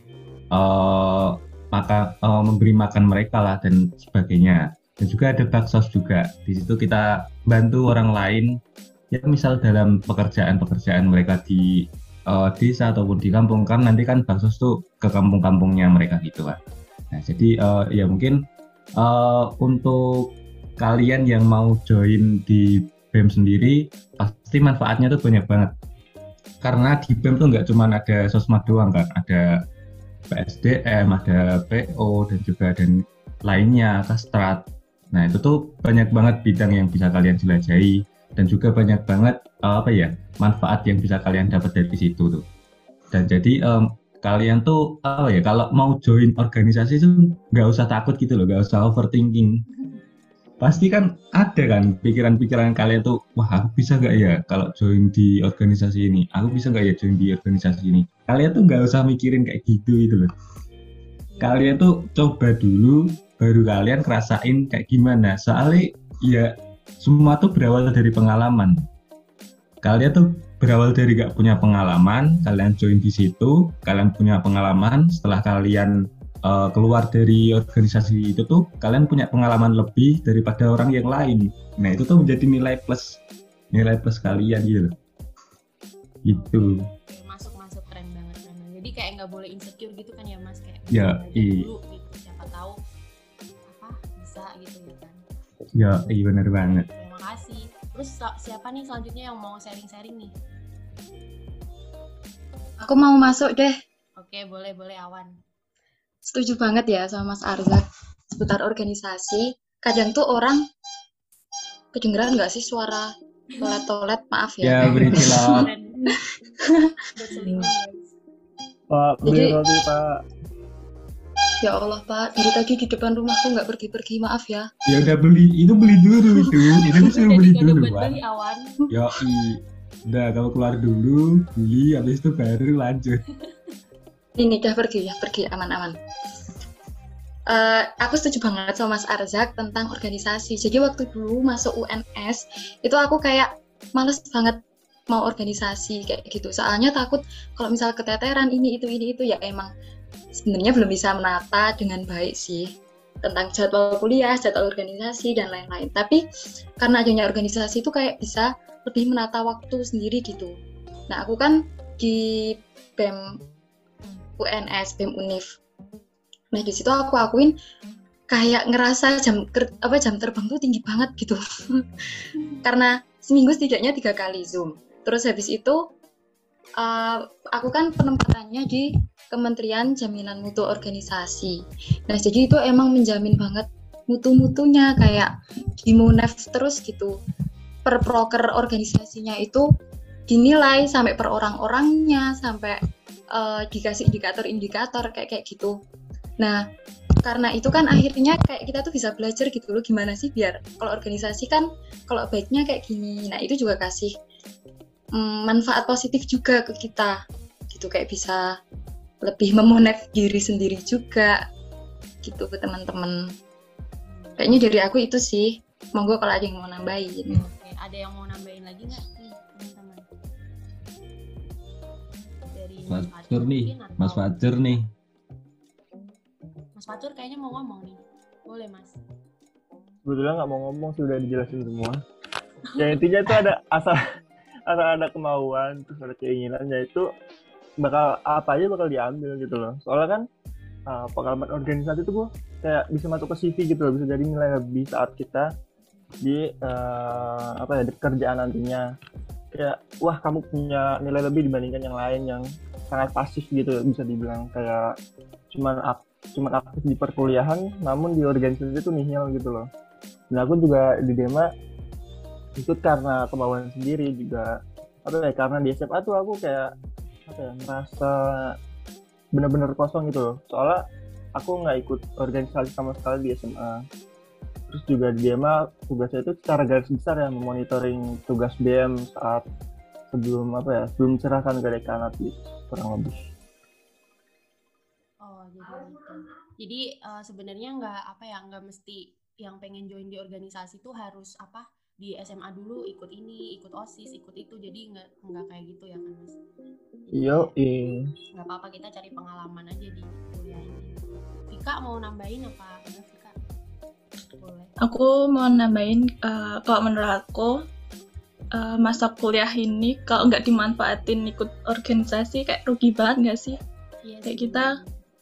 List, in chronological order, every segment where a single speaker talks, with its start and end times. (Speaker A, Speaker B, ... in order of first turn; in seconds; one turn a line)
Speaker A: 0.5-8.6
Speaker A: 9.1-16.6
Speaker A: 17.1-18.4
Speaker A: 19.0-25.7
Speaker A: 26.6-29.6
Speaker A: 30.3-42.4
Speaker A: 43.1-49.6
Speaker A: 50.6-60.3
Speaker B: 61.3-61.7
Speaker A: 61.4-68.9
Speaker A: 69.8-83.2
Speaker A: 83.7-84.9
Speaker A: 86.2-86.8
Speaker B: 86.3-92.8
Speaker A: 90.9-91.7
Speaker B: 93.7-95.2
Speaker A: 95.7-96.9
Speaker B: 96.8-100.3
Speaker C: 102.8-103.8
Speaker B: 104.2-105.3
Speaker C: 106.3-107.8
Speaker C: 108.3-110.6
Speaker C: 111.9-115.7
Speaker A: 114.6-115.7
Speaker B: 115.5-116.2
Speaker B: 117.1-118.2
Speaker D: 118.9-120.2
Speaker C: 119.3-119.6
Speaker C: 121.6-124.7
Speaker A: 124.8-128.2
Speaker B: 126.9-128.8
Speaker A: 128.9-133.2
Speaker C: 134.3-136.0
Speaker C: 137.5-144.6
Speaker C: 145.1-149.7
Speaker C: 150.3-156.2
Speaker C: 156.8-160.5
Speaker C: 161.1-163.4
Speaker C: 164.4-165.5
Speaker C: 166.5-167.5
Speaker C: 168.3-175.8
Speaker C: 176.8-187.2
Speaker C: 187.8-189.6
Speaker C: 190.3-192.8
Speaker C: 193.3-195.8
Speaker C: 196.4-196.7
Speaker C: 197.2-204.1
Speaker C: 205.2-207.2
Speaker C: 207.7-208.6
Speaker C: 209.2-211.4
Speaker C: 212.2-213.3
Speaker B: 214.0-214.8
Speaker C: 214.4-217.4
Speaker B: 217.3-220.1
Speaker B: 222.5-224.3
Speaker A: 222.9-224.9
Speaker B: 226.8-229.0
Speaker D: 230.0-232.0
Speaker B: 232.7-233.0
Speaker D: 232.8-234.0
Speaker D: 234.7-237.1
Speaker D: 237.8-240.2
Speaker D: 240.9-245.5
Speaker D: 246.2-248.8
Speaker D: 249.5-254.9
Speaker D: 255.5-259.6
Speaker D: 260.3-261.5
Speaker D: 262.6-264.5
Speaker D: 265.1-266.7
Speaker D: 267.3-268.6
Speaker D: 269.4-270.8
Speaker D: 271.4-273.8
Speaker D: 274.7-279.4
Speaker D: 280.1-283.2
Speaker B: 285.2-296.4
Speaker D: 297.1-298.1
Speaker B: 297.2-297.5
Speaker B: 298.3-303.3
Speaker B: 304.4-304.7
Speaker E: 304.8-307.6
Speaker E: 308.5-313.6
Speaker B: 314.0-315.0
Speaker E: 314.2-314.7